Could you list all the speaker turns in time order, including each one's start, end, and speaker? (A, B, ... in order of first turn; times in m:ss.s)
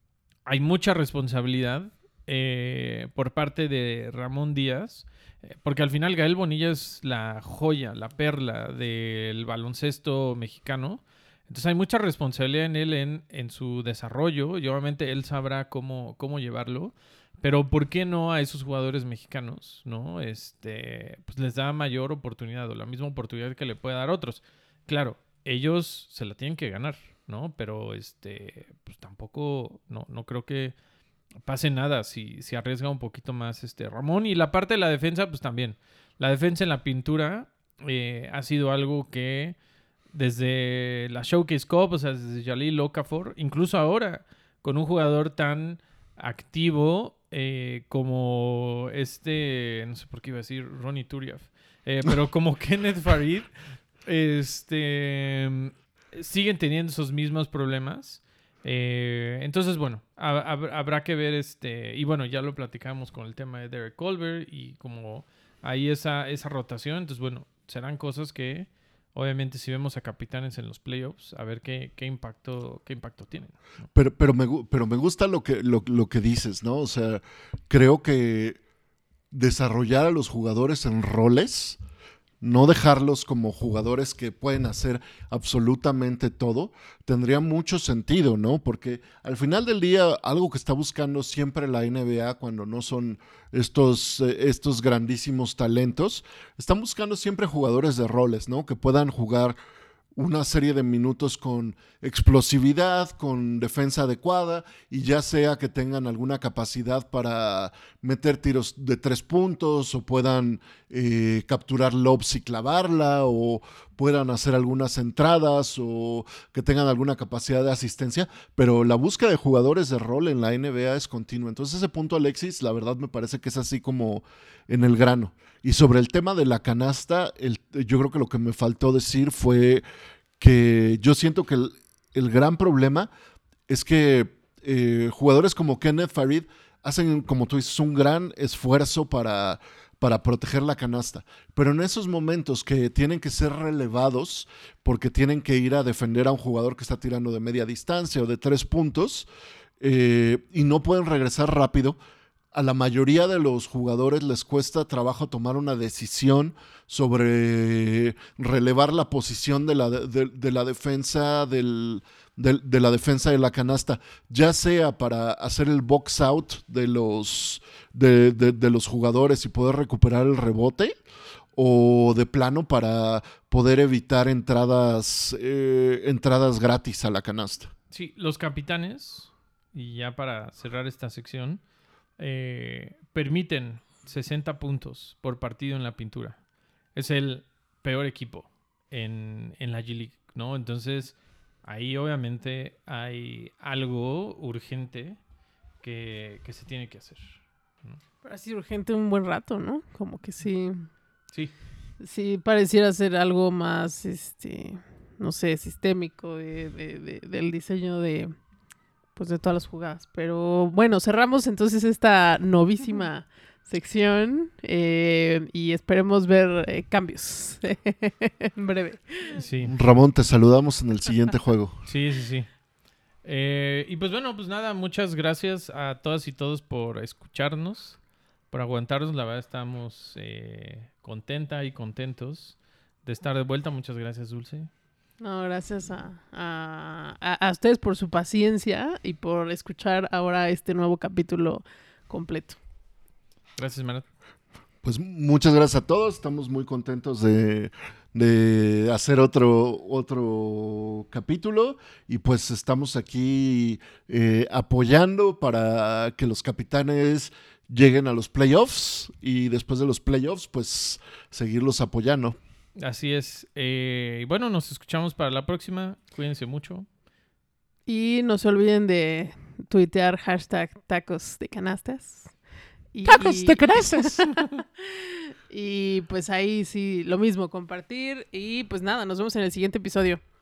0:00.4-0:30.7 A
0:31.4-0:39.6 A
0:40.1-0:53.5 A
0:54.0-1:13.6 A
1:13.9-1:18.6 B
1:19.3-1:21.8 B
1:22.4-1:39.6 B
1:40.2-2:09.8 B
2:10.4-2:13.1 B
2:13.7-2:29.3 B
2:29.8-2:32.0 B
2:32.5-2:50.9 B
2:51.6-2:57.7 B
2:57.9-3:01.6 A
3:02.2-3:06.4 A
3:06.9-3:15.2 A
3:15.8-3:18.0 A
3:18.2-3:20.9 C
3:22.0-3:28.3 C
3:29.2-3:39.4 C
3:39.3-3:39.7 A
3:39.6-3:41.8 B
3:41.8-3:42.5 A
3:43.2-3:48.0 A
3:48.5-3:54.7 A
3:55.2-4:02.6 C
4:03.6-4:04.0 A
4:04.8-4:22.4 B
4:22.8-4:26.8 A
4:27.9-4:32.3 C
4:32.9-4:40.2 C
4:33.1-4:34.4 A